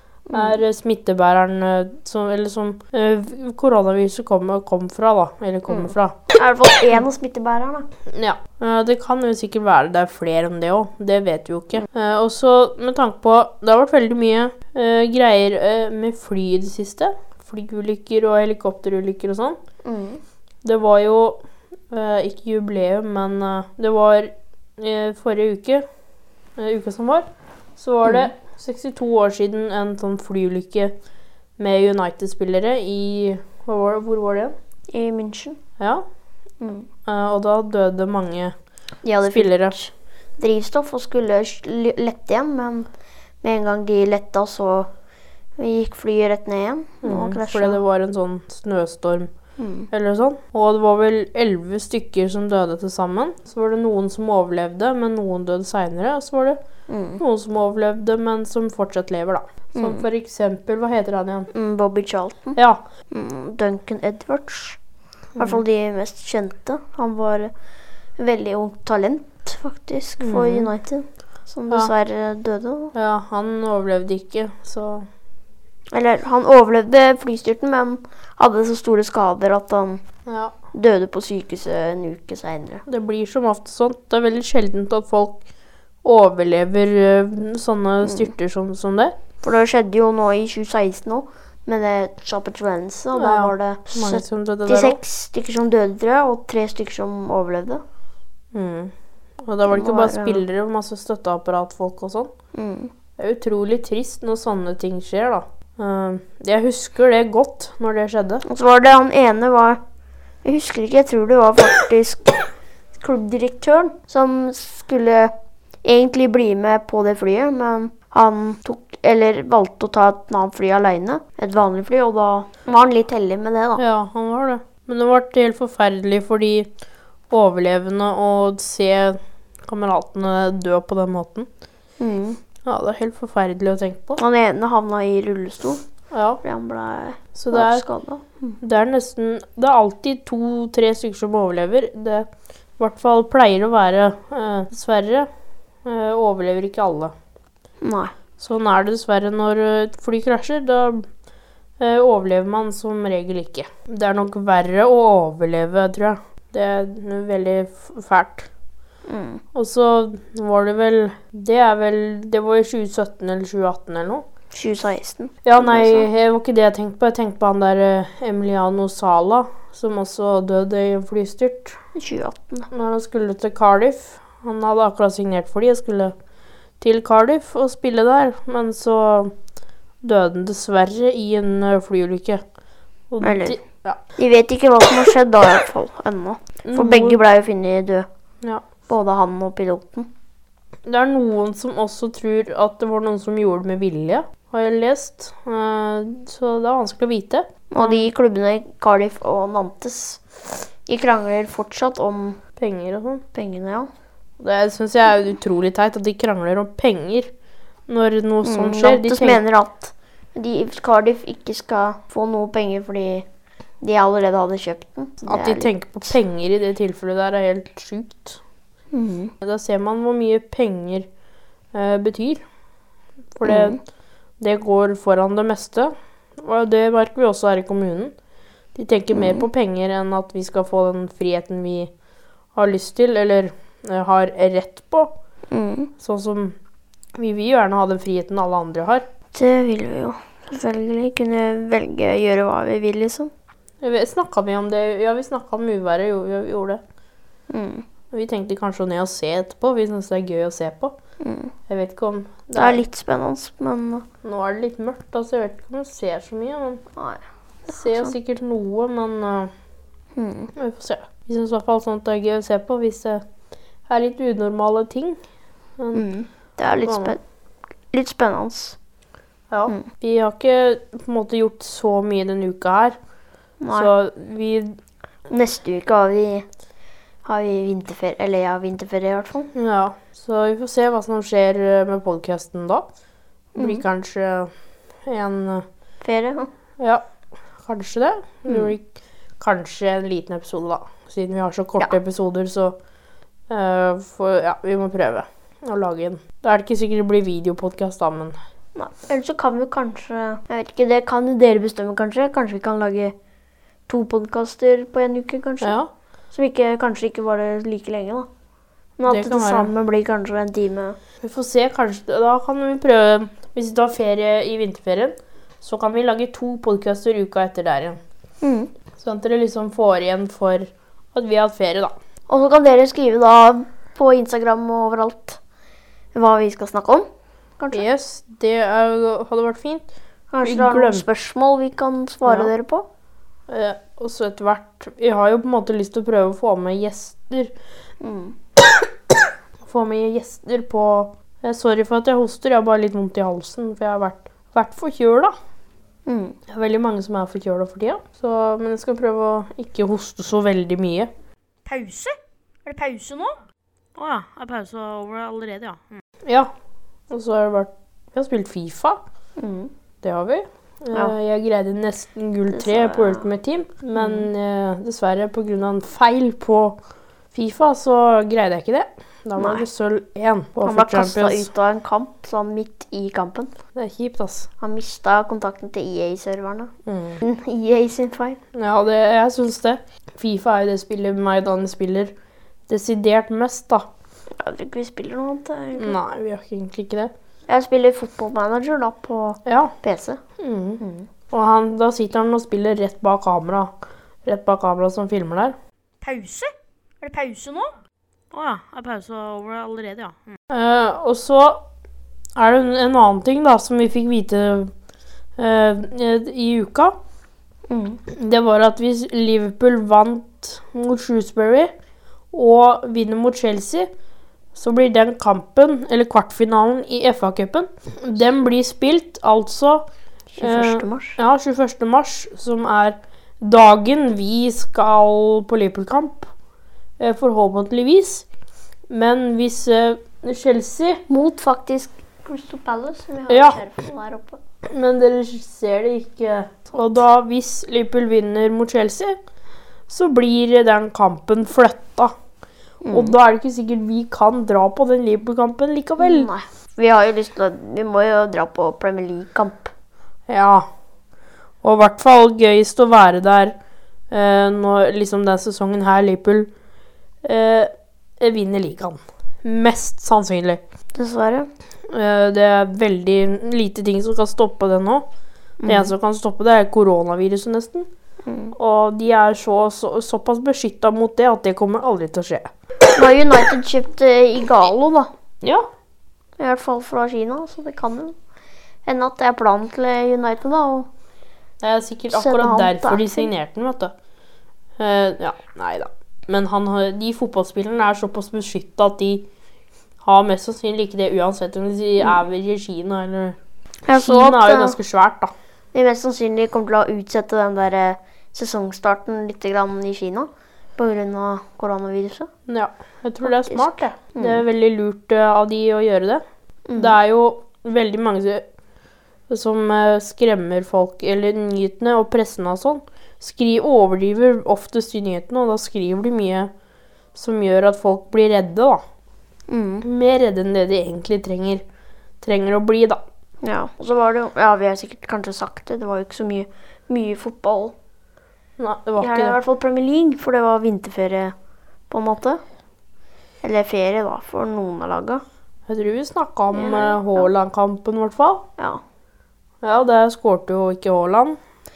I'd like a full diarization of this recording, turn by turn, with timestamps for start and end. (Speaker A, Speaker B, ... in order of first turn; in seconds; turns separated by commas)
Speaker A: 0.3-0.6, Speaker B: 0.3-6.2, Speaker A: 5.7-7.9, Speaker B: 8.1-19.6, Speaker A: 19.8-20.2, Speaker B: 20.6-25.9, Speaker B: 26.6-30.9, Speaker B: 31.6-34.5, Speaker A: 34.9-35.6, Speaker B: 35.8-36.1, Speaker A: 36.6-36.9, Speaker B: 37.1-38.5, Speaker A: 39.0-42.9, Speaker B: 39.3-39.8, Speaker A: 43.4-44.9, Speaker A: 45.6-47.8, Speaker B: 47.0-49.3, Speaker A: 49.6-49.9, Speaker B: 49.9-56.6, Speaker A: 56.9-57.2, Speaker B: 57.2-61.5, Speaker A: 59.8-60.0, Speaker A: 61.5-62.6, Speaker B: 62.6-62.8, Speaker A: 63.1-64.8, Speaker B: 65.4-65.6, Speaker A: 65.4-67.5, Speaker A: 68.2-72.9, Speaker B: 70.2-70.7, Speaker B: 72.9-75.1, Speaker A: 75.9-80.0, Speaker B: 80.3-80.5, Speaker A: 80.7-82.8, Speaker B: 82.9-85.4, Speaker B: 86.0-89.2, Speaker A: 88.0-88.3, Speaker A: 89.4-97.8, Speaker B: 93.2-95.0, Speaker B: 98.5-98.9, Speaker B: 99.4-102.3, Speaker A: 99.7-100.4, Speaker A: 102.5-102.9, Speaker B: 103.2-108.4, Speaker A: 108.5-109.8, Speaker A: 110.4-115.3, Speaker A: 115.8-123.8, Speaker B: 123.8-126.7, Speaker B: 127.3-131.5, Speaker A: 132.0-132.4, Speaker B: 132.7-134.2, Speaker A: 134.2-135.8, Speaker B: 136.1-136.4, Speaker A: 136.4-138.6, Speaker B: 137.3-137.8, Speaker B: 138.6-145.3, Speaker B: 145.8-147.1, Speaker A: 147.8-148.1, Speaker B: 148.4-151.1, Speaker B: 151.8-158.5, Speaker A: 159.1-159.4, Speaker B: 159.6-164.3, Speaker A: 164.5-166.1, Speaker B: 165.4-171.8, Speaker A: 171.9-172.7, Speaker B: 172.7-176.2, Speaker B: 176.8-179.3, Speaker B: 180.0-182.4, Speaker B: 183.1-184.0, Speaker A: 183.2-183.6, Speaker A: 184.2-188.1, Speaker B: 186.7-187.2, Speaker A: 188.9-190.1, Speaker B: 190.9-198.1, Speaker A: 197.7-202.4, Speaker B: 202.6-203.2, Speaker A: 203.3-203.9, Speaker B: 204.4-207.3, Speaker B: 207.9-209.4, Speaker A: 208.4-213.3, Speaker A: 213.8-215.7, Speaker B: 215.3-218.4, Speaker A: 218.9-219.3, Speaker B: 219.4-221.1, Speaker B: 221.7-222.4, Speaker B: 223.3-223.8, Speaker A: 223.4-223.8, Speaker B: 224.4-228.1, Speaker B: 228.8-231.9, Speaker A: 229.1-229.4, Speaker B: 232.6-235.1, Speaker A: 235.5-235.9, Speaker B: 236.0-236.6, Speaker B: 237.2-239.1, Speaker A: 239.3-243.3, Speaker B: 243.8-246.8, Speaker A: 247.5-247.9, Speaker B: 248.1-250.9, Speaker A: 251.2-251.5, Speaker B: 251.7-252.8, Speaker A: 252.6-254.1, Speaker B: 254.2-256.8, Speaker A: 257.0-258.1, Speaker B: 257.7-259.5, Speaker A: 260.2-260.5, Speaker B: 260.6-263.2, Speaker B: 263.9-265.2, Speaker B: 265.8-266.0, Speaker A: 265.9-267.2, Speaker B: 266.8-267.2, Speaker A: 267.9-268.8, Speaker B: 269.5-273.0, Speaker A: 273.6-273.9, Speaker B: 273.7-274.8, Speaker A: 275.3-276.5, Speaker A: 277.2-279.5, Speaker B: 279.6-282.9, Speaker A: 283.6-283.8, Speaker B: 283.6-284.5, Speaker B: 285.1-285.7, Speaker A: 286.0-286.5, Speaker B: 287.6-288.9, Speaker B: 289.4-292.8, Speaker B: 293.5-298.4, Speaker A: 298.8-303.1, Speaker A: 303.9-305.8, Speaker B: 305.6-305.9, Speaker A: 306.3-308.3, Speaker A: 309.0-311.0, Speaker B: 309.1-309.7, Speaker B: 311.2-318.0, Speaker A: 318.4-318.7, Speaker B: 319.0-321.9, Speaker A: 322.3-325.4, Speaker A: 326.1-327.1, Speaker B: 327.7-329.9, Speaker A: 330.3-332.9, Speaker B: 330.4-331.1, Speaker B: 332.3-332.5, Speaker B: 333.5-337.5, Speaker A: 338.0-338.4, Speaker B: 338.6-338.9, Speaker B: 339.6-345.3, Speaker A: 346.1-346.4, Speaker B: 346.5-351.1, Speaker C: 351.7-353.4, Speaker B: 354.0-356.5, Speaker B: 357.1-359.0, Speaker A: 359.4-359.7, Speaker B: 360.0-366.8, Speaker A: 362.5-363.3, Speaker A: 364.0-364.3, Speaker B: 367.3-371.5, Speaker A: 369.4-369.6, Speaker A: 370.6-373.5, Speaker B: 373.8-374.5, Speaker A: 374.6-378.4, Speaker B: 376.9-377.2, Speaker B: 378.5-382.1, Speaker B: 382.7-383.9, Speaker A: 384.4-386.0, Speaker B: 385.8-387.1, Speaker A: 387.5-390.2, Speaker B: 389.5-389.7, Speaker B: 390.4-393.7, Speaker A: 390.8-391.1, Speaker B: 394.2-395.6, Speaker C: 396.0-397.8, Speaker B: 398.3-401.6, Speaker B: 402.4-404.7, Speaker B: 405.4-407.0, Speaker A: 407.7-408.0, Speaker B: 408.1-411.7, Speaker B: 412.3-413.9, Speaker B: 414.6-419.9, Speaker A: 420.3-421.2, Speaker B: 420.4-426.3, Speaker B: 427.0-428.3, Speaker B: 428.9-431.0, Speaker A: 431.1-434.4, Speaker B: 433.3-433.6, Speaker B: 434.6-439.2, Speaker B: 439.9-442.1, Speaker A: 442.8-443.2, Speaker B: 442.9-446.3, Speaker A: 446.0-449.7, Speaker B: 450.3-450.7, Speaker B: 451.6-453.6, Speaker B: 454.1-456.5, Speaker B: 457.2-460.6, Speaker A: 460.9-461.5, Speaker B: 461.9-465.1, Speaker A: 465.6-465.9, Speaker B: 465.7-467.9, Speaker A: 468.2-468.6, Speaker B: 468.6-472.5, Speaker A: 472.9-475.1, Speaker B: 475.4-475.7, Speaker A: 476.4-478.1, Speaker A: 478.9-480.9, Speaker B: 481.6-483.9, Speaker A: 482.1-483.3, Speaker B: 484.8-489.3, Speaker B: 490.0-493.4, Speaker A: 493.9-494.8, Speaker B: 493.9-495.3, Speaker A: 495.7-502.3, Speaker B: 502.5-506.2, Speaker A: 503.2-504.4, Speaker A: 506.7-507.0, Speaker B: 506.8-508.5, Speaker B: 509.3-516.5, Speaker B: 517.1-518.8, Speaker A: 519.5-519.9, Speaker B: 519.8-521.6, Speaker B: 522.2-523.0, Speaker A: 523.4-527.7, Speaker B: 528.6-529.4, Speaker A: 529.0-531.3, Speaker A: 531.9-532.4, Speaker A: 533.4-535.2, Speaker B: 535.7-538.5, Speaker A: 536.5-537.3, Speaker B: 539.6-541.4